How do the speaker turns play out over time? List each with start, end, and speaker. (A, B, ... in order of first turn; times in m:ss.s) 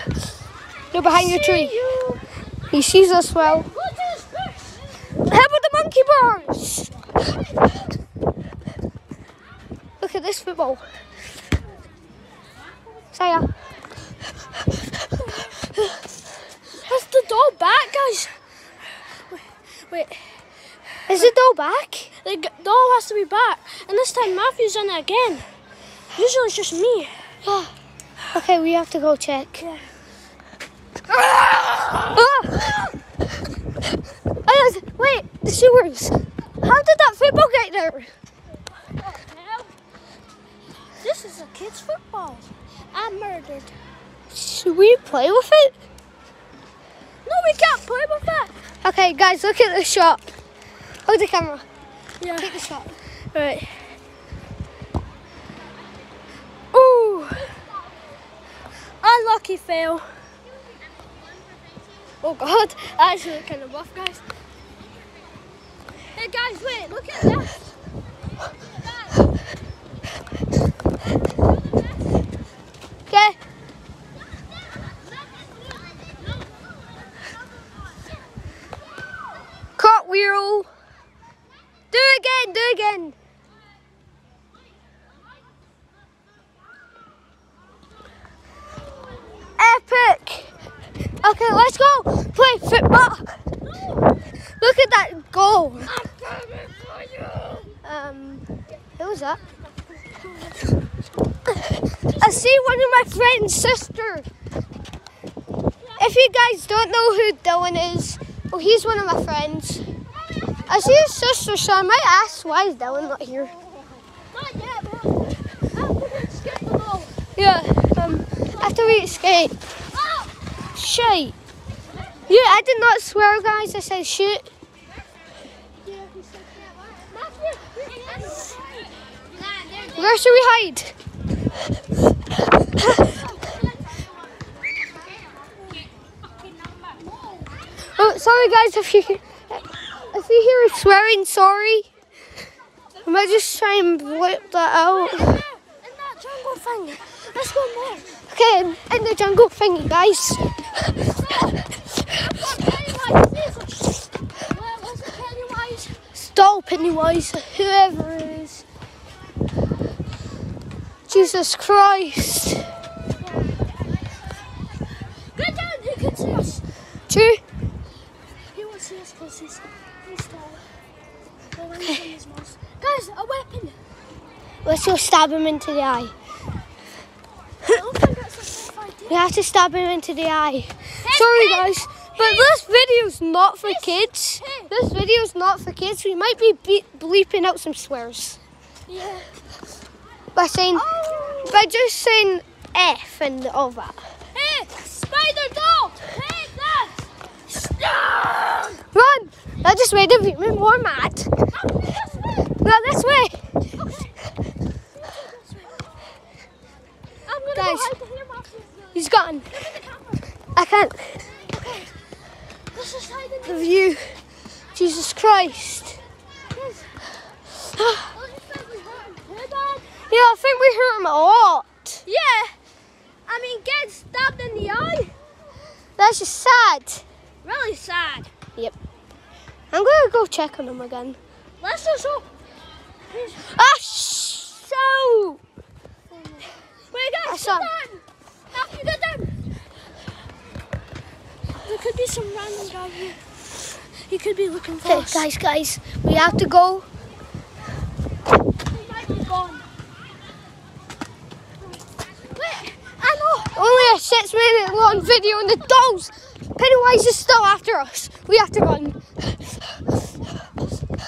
0:00.9-0:01.8 A
0:01.0-0:02.2 B
0:02.7-0:03.7 A
0:03.4-0:05.2 B
0:05.3-0:06.9 A
0:10.0-0:10.8 A
0:13.1-0:13.5 A
0:15.1-0:15.6 B
0:16.8-0:18.4 B
0:19.3-0:20.4 B
0:21.1-0:22.1 A
0:22.2-0:25.5 B
0:26.2-0:27.1 B
0:27.4-0:27.7 A
0:28.3-0:29.6 A
0:29.6-0:29.9 B
0:31.5-0:32.9 B
0:32.0-0:32.8 A
0:34.4-0:38.1 A
0:39.0-0:39.8 B
0:41.0-0:43.7 B
0:44.3-0:45.8 A
0:47.2-0:48.5 B
0:48.8-0:50.2 A
0:51.1-0:51.6 A
0:52.2-0:52.6 B
0:52.4-0:53.0 A
0:53.3-0:53.9 B
0:56.7-0:57.4 A
0:59.0-1:00.1 B
1:02.2-1:04.2 B
1:06.1-1:07.6 B
1:08.8-1:09.1 B
1:13.1-1:13.4 A
1:19.8-1:20.7 A
1:21.9-1:23.2 A
1:29.6-1:30.5 A
1:31.2-1:33.4 A
1:33.6-1:34.2 B
1:34.6-1:36.1 A
1:36.2-1:37.0 B
1:37.6-1:38.4 A
1:39.0-1:39.4 A
1:39.9-1:40.8 B
1:41.6-1:44.3 A
1:42.0-1:42.5 B
1:45.8-1:46.2 B
1:46.0-1:49.8 A
1:50.7-1:53.5 A
1:54.3-1:57.2 B
1:57.4-1:59.6 A
1:58.5-1:59.2 B
1:59.9-2:00.3 B
2:00.8-2:01.4 A
2:02.3-2:04.5 A
2:05.9-2:10.3 B
2:10.0-2:11.0 A
2:13.0-2:14.0 B
2:17.9-2:21.9 A
2:23.0-2:25.4 A
2:24.9-2:28.2 B
2:28.3-2:30.6 A
2:31.0-2:36.0 B
2:36.2-2:38.6 A
2:41.1-2:42.7 A
2:41.1-2:41.4 B
2:45.3-2:46.6 B
2:47.1-2:47.4 A
2:48.5-2:50.6 B
2:51.5-2:53.8 B
2:54.6-2:56.1 A
2:57.6-2:59.2 B
2:59.1-3:08.4 A
3:01.0-3:02.6 B
3:03.6-3:04.7 B
3:08.9-3:09.3 B
3:10.4-3:14.0 A
3:10.7-3:11.7 B
3:14.3-3:18.8 B
3:18.9-3:21.3 A
3:21.5-3:22.6 B
3:22.6-3:23.4 A
3:23.6-3:24.2 B
3:25.0-3:26.0 B
3:27.3-3:30.3 B
3:27.6-3:27.9 A
3:28.9-3:29.5 A
3:30.6-3:31.2 A
3:31.4-3:31.9 B
3:32.7-3:33.8 B
3:33.4-3:34.2 A
3:34.8-3:36.0 A
3:36.5-3:36.9 B
3:38.0-3:40.0 B
3:40.1-3:42.0 A
3:42.0-3:42.6 B
3:43.3-3:45.1 B
3:46.0-3:47.0 A
3:47.4-3:48.3 B
3:49.7-3:51.2 A
3:51.6-3:52.3 B
3:53.1-3:53.6 B
3:53.5-3:55.4 A
3:56.3-3:59.3 B
3:57.2-3:57.7 A
4:01.6-4:05.3 B
4:04.8-4:06.9 A
4:06.2-4:06.4 B
4:08.6-4:09.7 B
4:11.6-4:14.0 B
4:13.6-4:19.0 A